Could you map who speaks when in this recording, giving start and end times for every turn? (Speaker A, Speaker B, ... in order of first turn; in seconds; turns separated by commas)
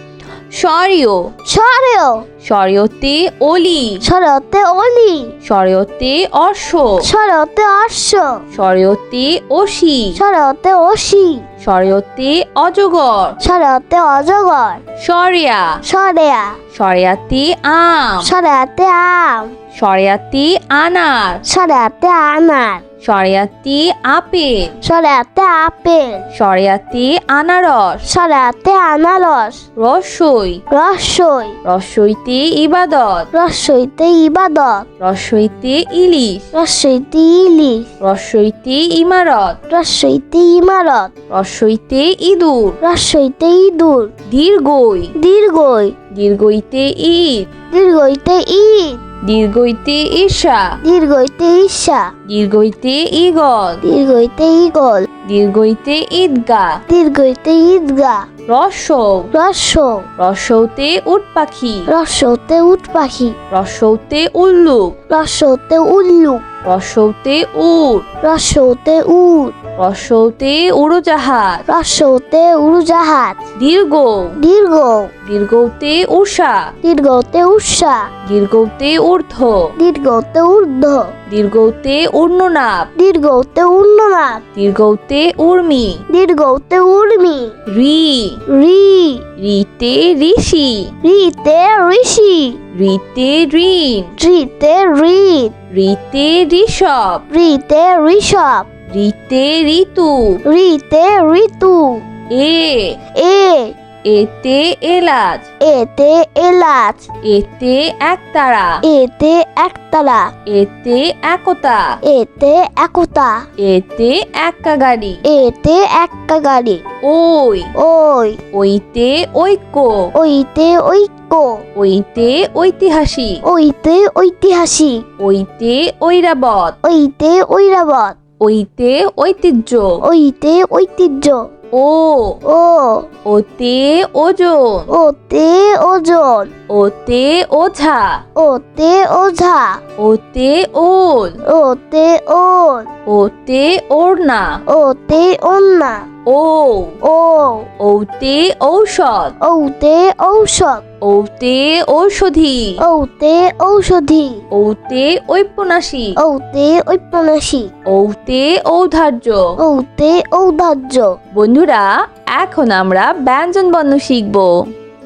Speaker A: 0.5-1.3, Speaker B: 1.5-2.3, Speaker A: 2.4-4.0, Speaker B: 4.0-5.3, Speaker A: 5.4-7.1, Speaker B: 7.0-8.4, Speaker A: 8.5-10.2, Speaker B: 10.2-11.5, Speaker A: 11.6-13.4, Speaker B: 13.4-14.8, Speaker A: 15.0-15.8, Speaker B: 15.8-16.6, Speaker A: 16.7-18.3, Speaker B: 18.2-19.5, Speaker A: 19.7-21.4, Speaker B: 21.4-22.8, Speaker A: 23.0-24.7, Speaker B: 24.8-26.2, Speaker A: 26.3-28.0, Speaker B: 28.1-29.6, Speaker A: 29.8-30.6, Speaker B: 30.7-31.6, Speaker A: 31.6-33.3, Speaker B: 33.3-34.9, Speaker A: 35.0-36.5, Speaker B: 36.5-37.9, Speaker A: 38.0-39.6, Speaker B: 39.7-41.1, Speaker A: 41.3-42.8, Speaker B: 42.8-44.1, Speaker A: 44.3-45.1, Speaker B: 45.2-46.0, Speaker A: 46.1-47.5, Speaker B: 47.7-49.0, Speaker A: 49.2-50.8, Speaker B: 50.8-52.1, Speaker A: 52.3-53.8, Speaker B: 53.8-55.1, Speaker A: 55.2-56.8, Speaker B: 56.9-58.3, Speaker A: 58.5-59.3, Speaker B: 59.3-60.1, Speaker A: 60.2-61.9, Speaker B: 61.9-63.4, Speaker A: 63.5-65.0, Speaker B: 65.1-66.4, Speaker A: 66.6-68.1, Speaker B: 68.2-69.6, Speaker A: 69.8-71.6, Speaker B: 71.7-73.4, Speaker A: 73.6-74.4, Speaker B: 74.4-75.1, Speaker A: 75.2-76.7, Speaker B: 76.8-78.1, Speaker A: 78.2-79.7, Speaker B: 79.8-81.2, Speaker A: 81.3-82.9, Speaker B: 83.0-84.4, Speaker A: 84.6-86.0, Speaker B: 86.1-87.6, Speaker A: 87.7-88.4, Speaker B: 88.5-89.3, Speaker A: 89.4-90.9, Speaker B: 91.0-92.6, Speaker A: 92.7-94.2, Speaker B: 94.2-95.5, Speaker A: 95.7-97.2, Speaker B: 97.3-98.7, Speaker A: 98.9-100.4, Speaker B: 100.5-102.0, Speaker A: 102.3-103.0, Speaker B: 103.2-103.8, Speaker A: 104.0-105.5, Speaker B: 105.6-107.1, Speaker A: 107.2-108.8, Speaker B: 108.8-110.3, Speaker A: 110.5-112.0, Speaker B: 112.0-113.5, Speaker A: 113.6-115.2, Speaker B: 115.2-116.8, Speaker A: 117.0-117.7, Speaker B: 117.8-118.4, Speaker A: 118.5-120.1, Speaker B: 120.2-121.7, Speaker A: 121.8-123.4, Speaker B: 123.4-125.1, Speaker A: 125.2-126.8, Speaker B: 126.8-128.2, Speaker A: 128.4-130.0, Speaker B: 130.0-131.5, Speaker A: 131.7-132.4, Speaker B: 132.4-133.1, Speaker A: 133.2-134.9, Speaker B: 134.9-136.5, Speaker A: 136.7-138.2, Speaker B: 138.3-139.8, Speaker A: 140.0-141.4, Speaker B: 141.4-142.9, Speaker A: 143.1-144.6, Speaker B: 144.7-146.1, Speaker A: 146.3-147.0, Speaker B: 147.0-147.7, Speaker A: 147.8-149.3, Speaker B: 149.4-150.8, Speaker A: 151.0-152.8, Speaker B: 152.8-154.4, Speaker A: 154.5-156.2, Speaker B: 156.2-157.7, Speaker A: 157.9-159.6, Speaker B: 159.6-161.2, Speaker A: 161.3-164.5